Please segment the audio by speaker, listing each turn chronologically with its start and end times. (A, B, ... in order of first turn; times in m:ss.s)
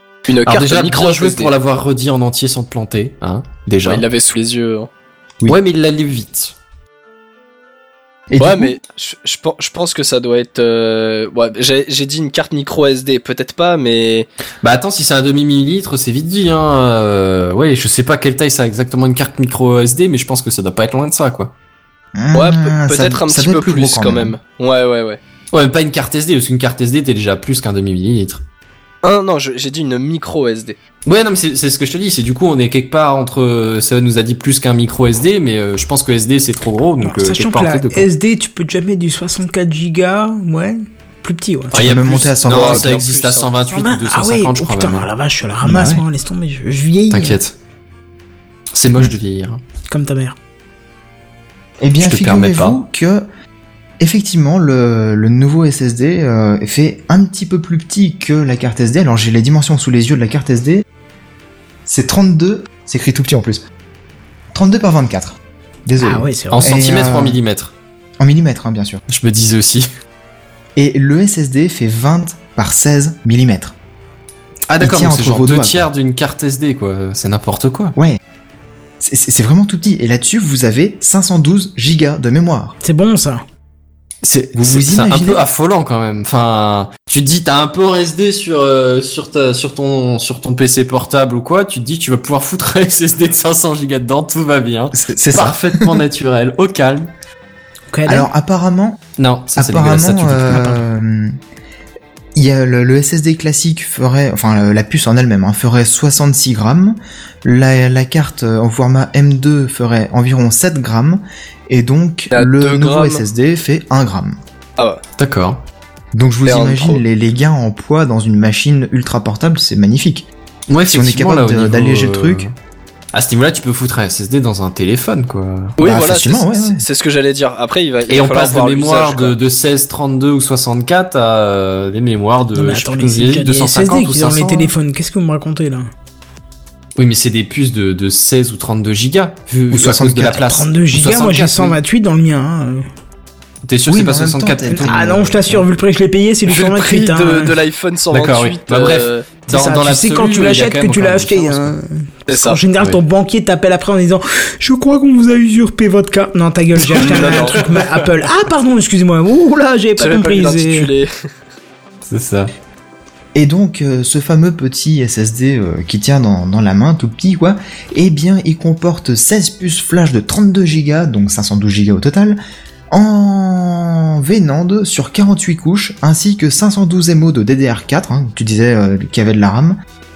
0:00.3-0:01.5 A
0:00.4-0:04.0 B
0:03.8-0:04.9 A
0:05.5-0:06.6 B
0:08.3-0:08.8 C
0:08.4-0:14.3 A
0:14.6-0:21.5 B
0:22.2-0:24.4 C
0:22.3-0:25.2 A
0:25.5-0:28.4 B
0:29.0-0:30.8 A
0:31.1-0:38.1 B
0:37.0-0:41.8 D
0:41.7-0:43.1 C
0:41.7-0:45.1 B
0:42.4-0:43.5 A
0:43.7-0:47.4 D
0:45.6-0:46.0 C
0:47.1-0:47.6 B
0:48.7-0:49.6 B
0:49.9-0:50.4 D
0:51.8-0:53.3 C
0:52.0-0:52.8 B
0:54.0-1:00.8 C
1:01.9-1:03.6 C
1:04.5-1:07.4 C
1:06.0-1:06.8 D
1:06.5-1:07.7 B
1:08.2-1:09.0 C
1:09.1-1:09.9 B
1:10.8-1:13.8 C
1:14.7-1:18.0 B
1:14.8-1:15.9 C
1:19.0-1:22.8 C
1:22.8-1:23.4 D
1:24.2-1:37.1 B
1:24.6-1:25.4 C
1:34.9-1:36.0 C
1:37.9-1:38.3 D
1:38.1-1:39.0 C
1:39.2-1:40.8 B
1:39.6-1:41.4 C
1:42.4-1:54.4 C
1:52.3-1:53.2 A
1:55.2-1:55.6 B
1:56.1-2:00.3 C
1:56.5-1:57.0 A
2:00.7-2:02.5 B
2:00.9-2:02.5 C
2:03.1-2:05.8 B
2:05.8-2:09.4 A
2:05.8-2:06.8 C
2:08.1-2:14.7 B
2:12.5-2:15.9 D
2:17.0-2:21.8 B
2:19.7-2:20.4 C
2:20.4-2:22.9 D
2:23.6-2:25.6 B
2:23.9-2:25.6 C
2:24.7-2:27.5 D
2:26.5-2:29.3 A
2:28.1-2:31.7 B
2:29.5-2:40.9 D
2:32.3-2:32.6 A
2:36.9-2:37.9 B
2:37.0-2:37.8 A
2:40.0-2:41.1 A
2:42.1-2:42.5 B
2:43.4-2:52.4 C
2:52.9-2:59.8 C